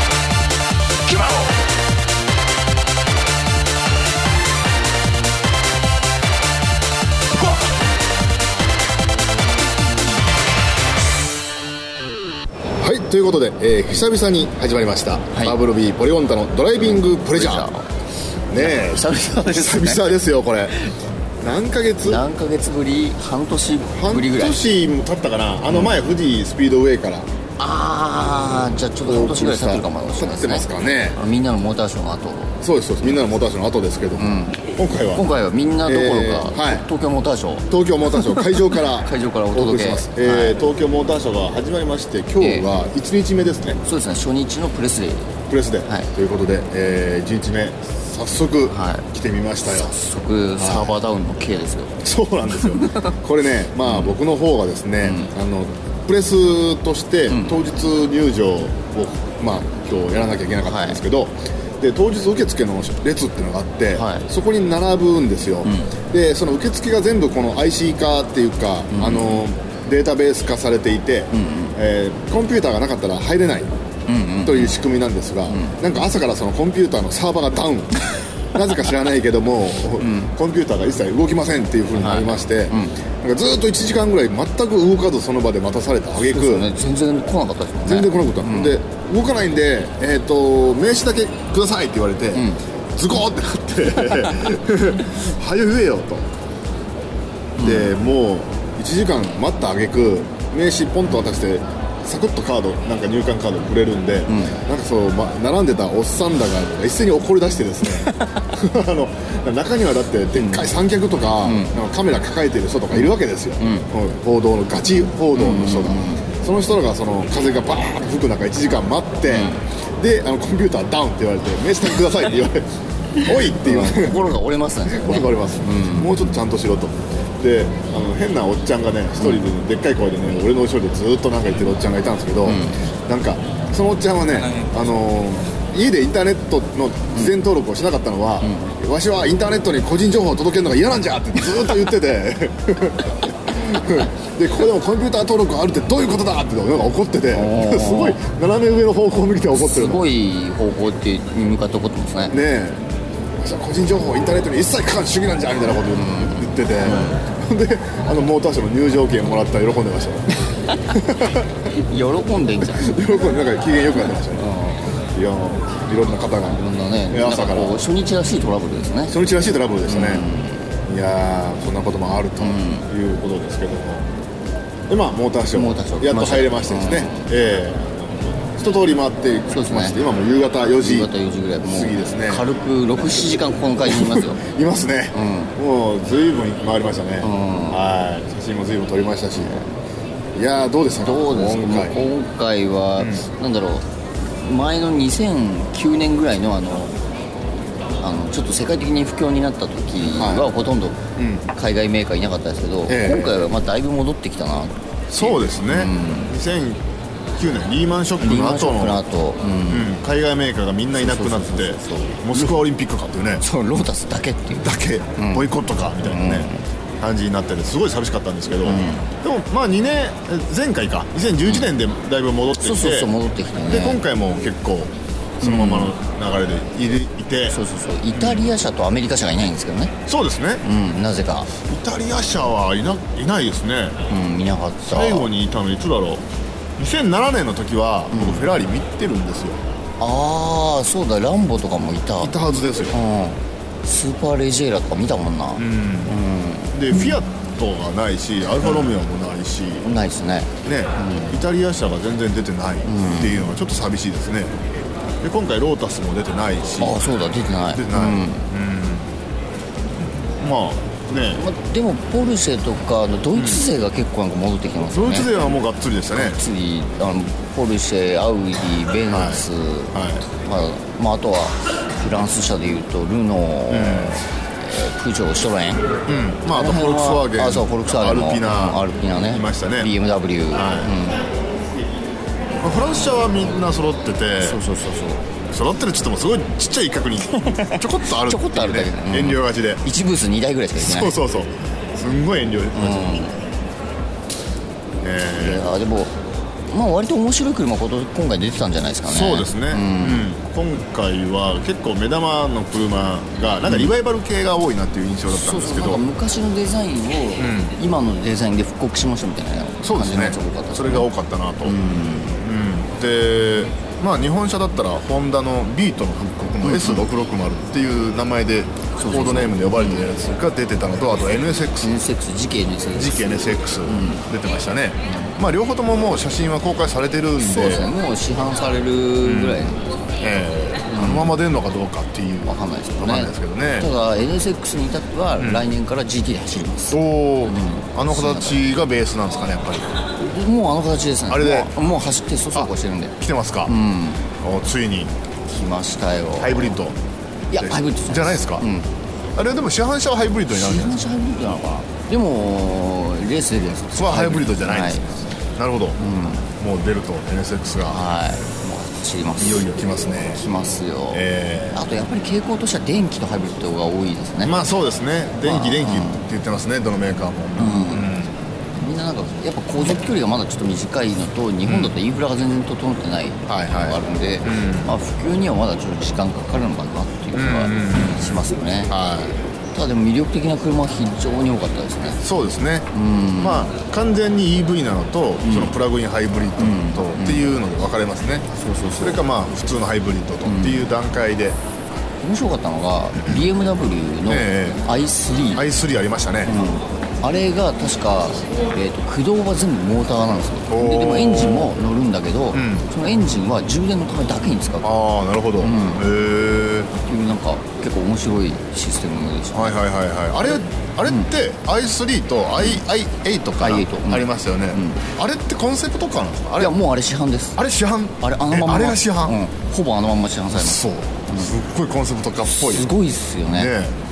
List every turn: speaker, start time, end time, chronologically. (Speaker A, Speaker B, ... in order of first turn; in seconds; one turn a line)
Speaker A: 12.8-17.7
Speaker B: 15.3-15.6
Speaker B: 17.1-17.9
Speaker A: 18.5-20.7
Speaker B: 18.5-21.0
Speaker A: 21.4-22.2
Speaker B: 22.0-24.6
Speaker A: 23.9-27.3
Speaker B: 27.6-32.5
Speaker A: 29.0-31.2
Speaker A: 32.6-35.3
Speaker B: 34.1-40.6
Speaker A: 35.8-36.9
Speaker A: 37.7-43.8
Speaker B: 42.4-42.7
Speaker B: 43.8-45.4
Speaker A: 45.5-49.9
Speaker B: 48.7-49.0
Speaker B: 49.6-52.0
Speaker A: 50.6-51.0
Speaker A: 52.0-73.7
Speaker B: 52.6-53.1
Speaker B: 53.9-54.1
Speaker B: 55.0-55.3
Speaker B: 57.3-57.6
Speaker B: 60.6-61.0
Speaker B: 63.9-64.3
Speaker B: 65.7-65.9
Speaker B: 68.9-69.4
Speaker B: 71.3-71.8
Speaker B: 74.1-74.8
Speaker A: 74.4-86.7
Speaker B: 75.5-75.8
Speaker B: 80.0-80.3
Speaker B: 81.9-83.0
Speaker B: 86.3-88.8
Speaker A: 87.8-96.3
Speaker B: 92.3-92.6
Speaker B: 97.6-97.9
Speaker A: 97.6-150.1
Speaker B: 104.3-104.6
Speaker B: 108.0-108.4
Speaker B: 110.3-110.7
Speaker B: 111.4-111.7
Speaker B: 113.6-113.9
Speaker B: 115.3-116.3
Speaker B: 119.3-119.6
Speaker B: 123.2-126.4
Speaker B: 132.4-132.9
Speaker B: 138.4-138.7
Speaker B: 147.3-148.2
Speaker B: 149.5-152.4
Speaker A: 152.3-152.8
Speaker A: 153.4-161.5
Speaker B: 155.9-157.2
Speaker B: 160.7-162.9
Speaker A: 162.6-164.5
Speaker B: 164.3-164.9
Speaker A: 165.1-167.9
Speaker B: 166.4-169.1
Speaker A: 169.1-170.3
Speaker B: 169.9-170.7
Speaker A: 170.8-174.1
Speaker B: 172.4-172.9
Speaker A: 174.9-181.1
Speaker B: 175.5-177.3
Speaker B: 179.5-180.0
Speaker B: 180.8-184.4
Speaker A: 181.6-182.5
Speaker A: 183.8-189.6
Speaker B: 185.1-185.5
Speaker B: 187.2-187.8
Speaker B: 189.3-189.7
Speaker A: 190.3-191.9
Speaker B: 191.0-196.9
Speaker A: 193.0-193.2
Speaker B: 198.0-204.8
Speaker A: 200.0-200.5
Speaker A: 201.2-201.4
Speaker A: 202.9-203.4
Speaker A: 205.1-206.8
Speaker B: 205.6-206.3
Speaker A: 207.3-209.0
Speaker B: 208.2-209.9
Speaker A: 209.7-213.4
Speaker B: 211.0-212.5
Speaker B: 213.4-216.6
Speaker A: 214.6-227.6
Speaker B: 218.6-219.1
Speaker B: 222.6-224.0
Speaker B: 225.4-225.9
Speaker B: 227.5-229.9
Speaker A: 228.1-228.5
Speaker A: 230.1-230.6
Speaker B: 230.6-231.5
Speaker A: 231.6-234.0
Speaker B: 234.1-235.3
Speaker A: 234.8-236.2
Speaker A: 236.8-239.6
Speaker B: 238.1-238.5
Speaker B: 240.0-242.3
Speaker A: 242.2-242.9
Speaker B: 242.9-246.7
Speaker A: 245.6-246.2
Speaker A: 246.7-249.8
Speaker B: 249.8-251.4
Speaker A: 250.6-254.6
Speaker B: 252.8-253.5
Speaker A: 255.2-257.0
Speaker B: 256.8-258.5
Speaker A: 257.7-259.1
Speaker A: 260.4-261.4
Speaker B: 261.3-265.3
Speaker A: 263.3-263.6
Speaker A: 264.9-266.4
Speaker B: 266.1-275.9
Speaker A: 269.1-270.2
Speaker A: 273.7-274.2
Speaker A: 276.1-279.9
Speaker B: 276.5-281.2
Speaker A: 280.5-281.0
Speaker A: 282.6-284.6
Speaker B: 284.4-285.2
Speaker A: 285.5-289.8
Speaker B: 287.4-291.1
Speaker A: 290.8-293.3
Speaker B: 292.7-293.4
Speaker A: 295.0-295.7
Speaker B: 295.4-296.1
Speaker B: 296.7-300.3
Speaker A: 299.0-306.0
Speaker B: 305.3-311.1
Speaker A: 307.4-307.7
Speaker A: 309.8-311.8
Speaker B: 311.6-312.4
Speaker A: 312.3-321.9
Speaker B: 316.6-317.1
Speaker B: 319.0-320.1
Speaker B: 321.8-324.2
Speaker A: 322.9-327.9
Speaker B: 325.1-325.4
Speaker B: 327.4-329.9
Speaker A: 329.2-333.9
Speaker B: 330.9-331.4
Speaker B: 332.4-338.6
Speaker A: 335.4-335.7
Speaker A: 336.9-339.9
Speaker B: 340.2-343.1
Speaker A: 341.3-341.7
Speaker A: 342.5-343.7
Speaker B: 343.6-344.3
Speaker A: 344.4-345.1
Speaker B: 345.5-346.8
Speaker A: 346.4-346.9
Speaker B: 347.5-348.9
Speaker A: 347.6-348.6
Speaker A: 349.4-351.0
Speaker B: 350.5-355.1
Speaker A: 353.9-355.0
Speaker A: 355.6-356.0
Speaker B: 356.0-356.5
Speaker A: 356.6-358.0
Speaker B: 357.8-364.6
Speaker A: 359.4-360.5
Speaker A: 361.1-361.8
Speaker A: 364.4-368.4
Speaker B: 365.4-366.2
Speaker B: 367.6-368.2
Speaker B: 368.7-378.9
Speaker A: 371.6-371.9
Speaker A: 373.5-374.9
Speaker A: 377.3-378.3
Speaker A: 378.9-379.4
Speaker B: 379.7-382.2
Speaker A: 382.2-388.5
Speaker B: 382.9-383.7
Speaker B: 385.4-385.7
Speaker B: 386.6-387.5
Speaker B: 388.6-389.2
Speaker A: 389.0-391.6
Speaker B: 390.4-390.9
Speaker B: 392.2-395.6
Speaker A: 394.3-394.8
Speaker A: 395.5-396.6
Speaker B: 396.4-404.9
Speaker A: 400.7-401.7
Speaker A: 402.5-402.9
Speaker A: 404.8-406.9
Speaker B: 405.6-406.1
Speaker B: 407.0-409.7
Speaker A: 409.5-416.7
Speaker B: 413.6-415.0
Speaker B: 416.6-417.6
Speaker A: 417.6-419.4
Speaker B: 418.2-421.5
Speaker A: 420.5-422.9
Speaker B: 422.4-423.7
Speaker A: 423.5-424.0